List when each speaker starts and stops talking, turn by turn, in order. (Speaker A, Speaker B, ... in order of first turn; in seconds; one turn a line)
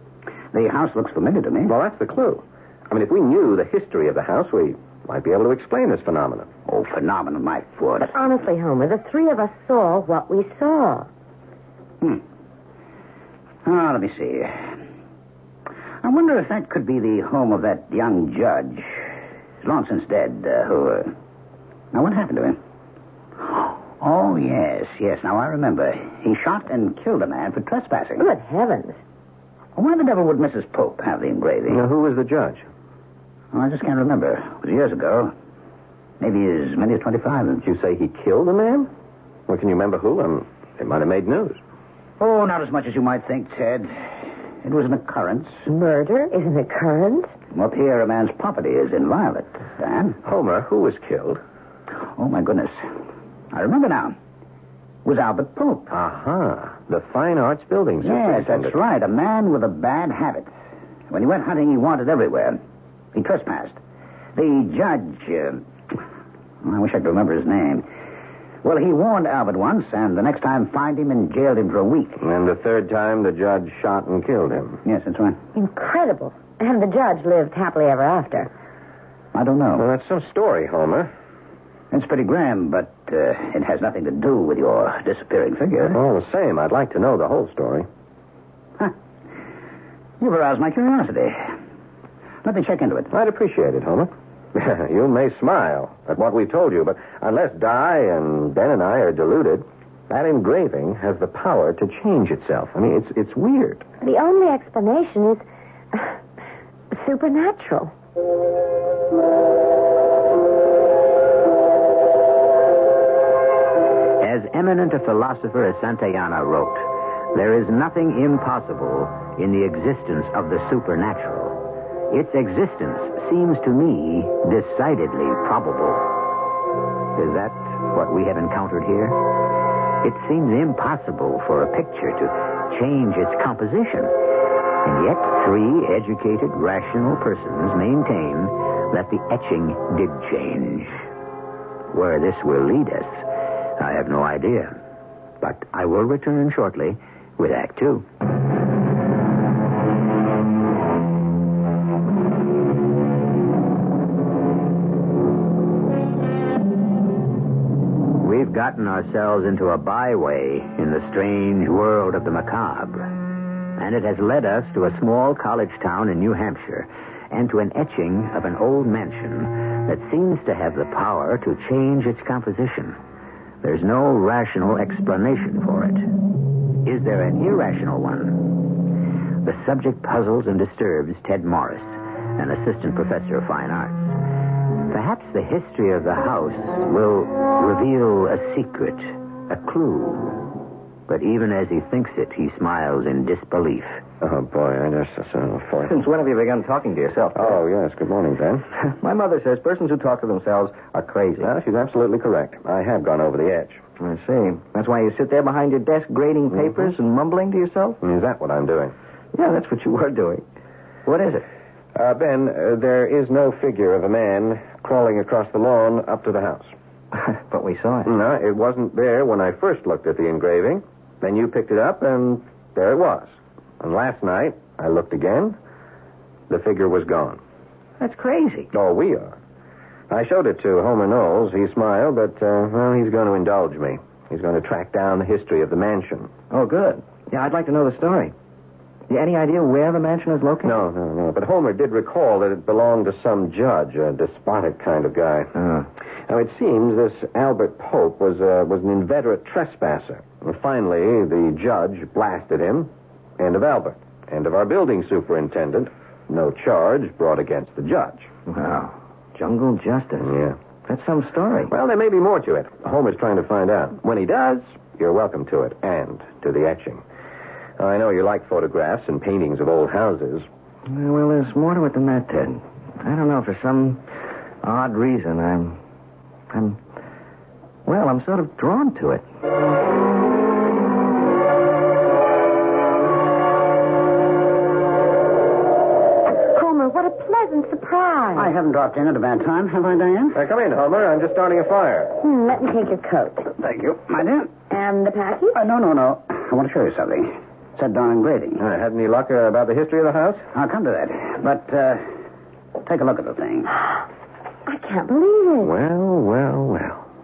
Speaker A: 0.5-1.7
Speaker B: 1.6-6.5
Speaker A: 6.7-8.1
Speaker C: 8.0-11.1
Speaker A: 13.6-14.7
Speaker A: 16.0-19.1
Speaker A: 19.6-21.1
Speaker A: 21.9-22.6
Speaker A: 23.4-28.2
Speaker C: 28.2-29.0
Speaker A: 29.8-31.8
Speaker B: 31.7-32.6
Speaker A: 33.5-35.3
Speaker A: 36.2-37.6
Speaker B: 37.6-38.9
Speaker B: 39.5-41.6
Speaker A: 42.2-43.9
Speaker A: 44.6-45.6
Speaker C: 45.7-47.3
Speaker A: 47.5-50.2
Speaker B: 50.2-51.4
Speaker A: 52.1-52.9
Speaker A: 53.5-54.1
Speaker A: 55.0-55.9
Speaker B: 55.9-58.7
Speaker A: 58.0-60.5
Speaker A: 61.1-62.6
Speaker A: 63.1-63.8
Speaker A: 64.3-65.6
Speaker A: 66.6-67.8
Speaker A: 68.6-72.2
Speaker B: 72.2-74.8
Speaker A: 74.8-75.4
Speaker C: 75.5-78.5
Speaker A: 79.3-79.8
Speaker B: 79.8-81.1
Speaker A: 81.9-86.0
Speaker B: 85.9-87.9
Speaker A: 90.2-91.5
Speaker A: 92.4-93.1
Speaker B: 93.1-103.8
Speaker C: 104.0-106.1
Speaker C: 106.9-107.9
Speaker D: 114.2-126.2
Speaker D: 127.1-129.2
Speaker D: 130.0-134.1
Speaker D: 134.8-141.0
Speaker D: 141.9-143.2
Speaker D: 143.8-144.8
Speaker D: 145.4-148.1
Speaker D: 158.2-163.1
Speaker D: 163.8-173.0
Speaker D: 173.6-176.1
Speaker D: 176.8-178.8
Speaker D: 179.4-184.2
Speaker D: 184.9-190.4
Speaker D: 191.1-194.0
Speaker B: 194.2-195.9
Speaker E: 195.8-197.6
Speaker B: 197.3-198.7
Speaker E: 198.8-201.5
Speaker B: 201.4-203.8
Speaker E: 204.0-208.0
Speaker B: 208.0-208.9
Speaker E: 209.3-210.4
Speaker E: 211.1-211.4
Speaker B: 211.9-216.7
Speaker E: 217.1-218.1
Speaker B: 218.0-225.6
Speaker B: 226.5-227.4
Speaker E: 228.0-228.7
Speaker B: 228.7-229.4
Speaker B: 230.1-236.3
Speaker E: 236.5-238.3
Speaker E: 239.1-240.8
Speaker B: 240.6-245.5
Speaker E: 245.6-245.8
Speaker B: 246.3-258.3
Speaker E: 258.5-260.3
Speaker B: 260.2-260.6
Speaker E: 260.9-261.7
Speaker B: 261.7-267.0
Speaker B: 267.8-270.5
Speaker E: 270.9-274.0
Speaker E: 274.6-275.8
Speaker E: 276.5-276.8
Speaker E: 277.9-279.2
Speaker C: 286.5-288.5
Speaker A: 288.4-290.4
Speaker B: 290.3-292.2
Speaker C: 292.2-293.5
Speaker A: 293.6-294.5
Speaker C: 294.7-295.6
Speaker A: 295.5-298.6
Speaker B: 298.6-300.5
Speaker A: 300.5-302.1
Speaker A: 302.8-303.7
Speaker C: 304.6-305.7
Speaker B: 305.6-307.1